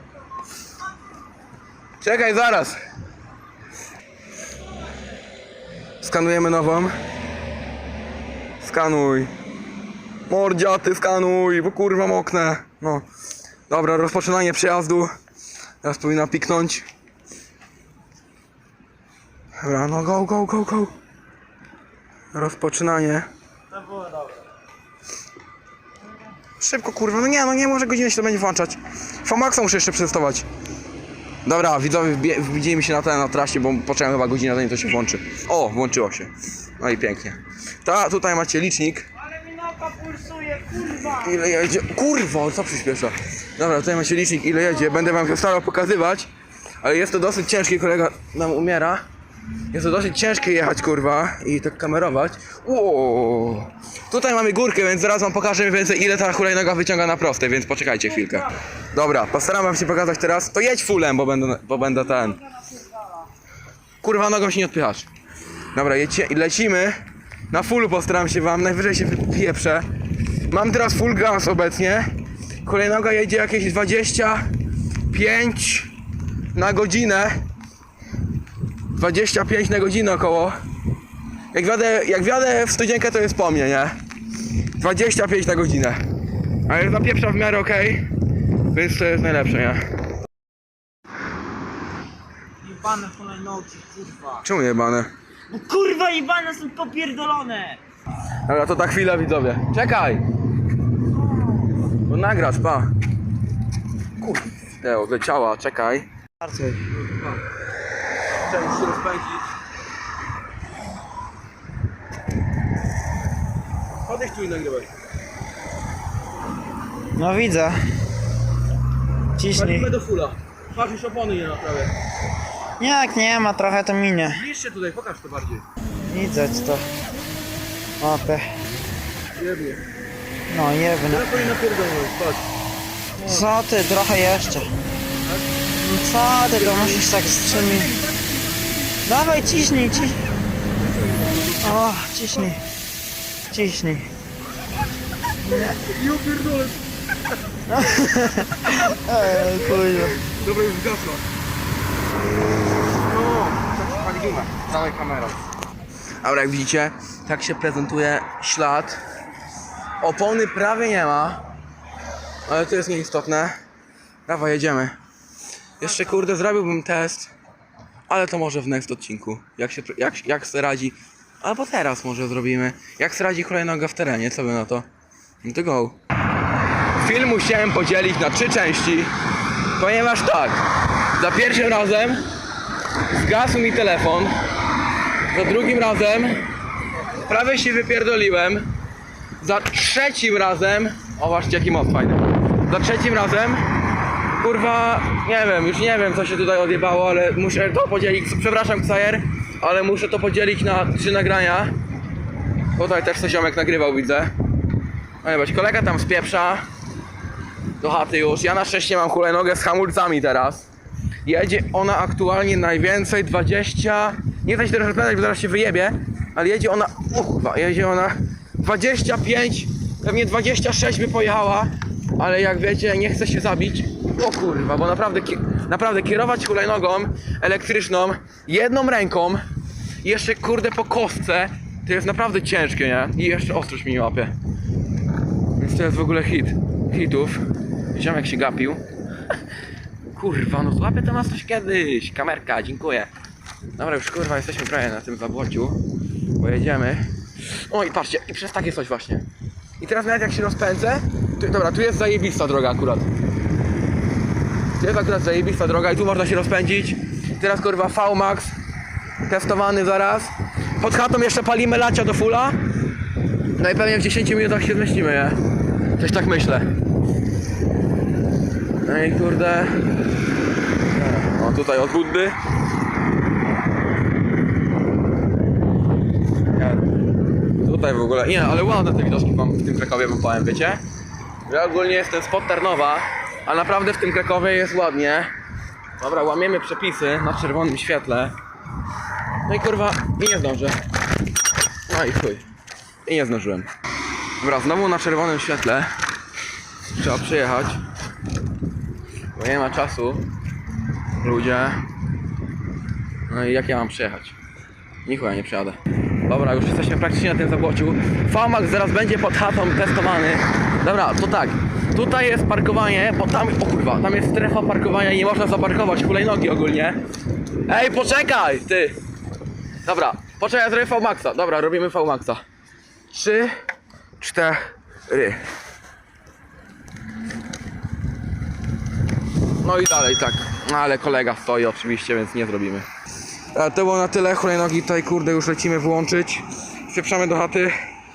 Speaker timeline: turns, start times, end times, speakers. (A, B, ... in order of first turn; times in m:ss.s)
0:02.0-0:02.8 A
0:06.0-0:06.9 A
0:08.6-0:09.3 A
0:10.3-0:13.0 A
0:13.7-0:15.1 A
0:15.8-0:16.8 A
0:19.6-0:20.9 A
0:22.3-0:23.3 A
0:23.9-0:24.2 B
0:26.6-0:30.4 A
0:31.4-0:39.1 A
0:39.4-0:41.1 B
0:41.0-0:46.3 A
0:46.8-0:49.0 A
0:49.7-1:02.4 A
1:04.0-1:05.1 A
1:05.7-1:07.0 A
1:07.5-1:09.9 A
1:10.5-1:12.1 A
1:12.6-1:14.5 A
1:15.1-1:15.9 A
1:16.5-1:17.4 A
1:18.9-1:20.5 A
1:21.5-1:24.0 A
1:24.8-1:26.0 A
1:26.7-1:28.1 A
1:28.7-1:29.8 A
1:32.6-1:34.4 B
1:34.4-1:35.1 A
1:35.5-1:37.8 B
1:38.4-1:40.2 A
1:41.9-1:42.9 A
1:44.2-1:46.1 A
1:46.4-1:46.8 B
1:46.9-1:47.4 A
1:48.4-1:49.4 A
1:54.0-1:54.9 A
1:57.2-1:57.8 B
1:59.4-1:59.9 B
1:59.5-2:01.9 A
2:02.8-2:04.4 B
2:04.3-2:05.6 A
2:06.0-2:06.8 B
2:08.0-2:08.5 B
2:09.3-2:09.8 A
2:10.5-2:11.3 B
2:11.1-2:12.5 A
2:13.2-2:13.4 A
2:13.2-2:14.7 B
2:15.7-2:17.9 B
2:16.5-2:18.1 A
2:19.0-2:20.3 B
2:20.9-2:21.6 A
2:21.6-2:22.6 B
2:23.5-2:24.1 B
2:25.4-2:25.8 B
2:25.8-2:26.8 A
2:27.7-2:30.2 B
2:29.2-2:31.2 A
2:33.0-2:35.4 A
2:36.2-2:39.0 A
2:40.0-2:41.4 A
2:42.5-2:43.6 A
2:44.2-2:45.0 A
2:45.8-2:47.3 A
2:48.1-2:54.8 A
2:55.4-2:56.0 A
2:57.0-2:59.1 A
2:59.7-3:00.6 A
3:01.2-3:02.2 A
3:03.1-3:04.3 A
3:05.3-3:06.4 A
3:07.2-3:08.7 A
3:09.4-3:13.6 A
3:14.4-3:21.7 A
3:22.8-3:24.3 A
3:25.2-3:26.6 A
3:27.8-3:30.7 A
3:31.2-3:49.4 A
3:50.0-3:54.3 A
3:55.6-3:58.8 A
4:00.1-4:03.1 A
4:03.7-4:05.8 A
4:06.4-4:09.2 A
4:09.8-4:13.1 A
4:14.8-4:18.5 A
4:19.2-4:22.6 A
4:23.6-4:25.4 A
4:26.0-4:26.7 A
4:28.8-4:29.8 A
4:30.9-4:32.4 A
4:36.5-4:36.9 A
4:37.6-4:40.8 A
4:41.5-4:45.3 A
4:46.0-4:48.3 A
4:49.4-4:50.8 A
4:51.9-4:52.4 A
4:53.0-4:53.7 A
4:54.4-4:55.9 A
4:56.9-4:57.8 A
4:59.3-5:00.3 A
5:01.2-5:01.8 A
5:03.3-5:04.4 A
5:05.0-5:17.0 A
5:17.6-5:19.0 A
5:19.8-5:22.4 A
5:23.1-5:23.6 A
5:24.2-5:25.4 A
5:29.6-5:32.9 A
5:33.5-5:37.8 A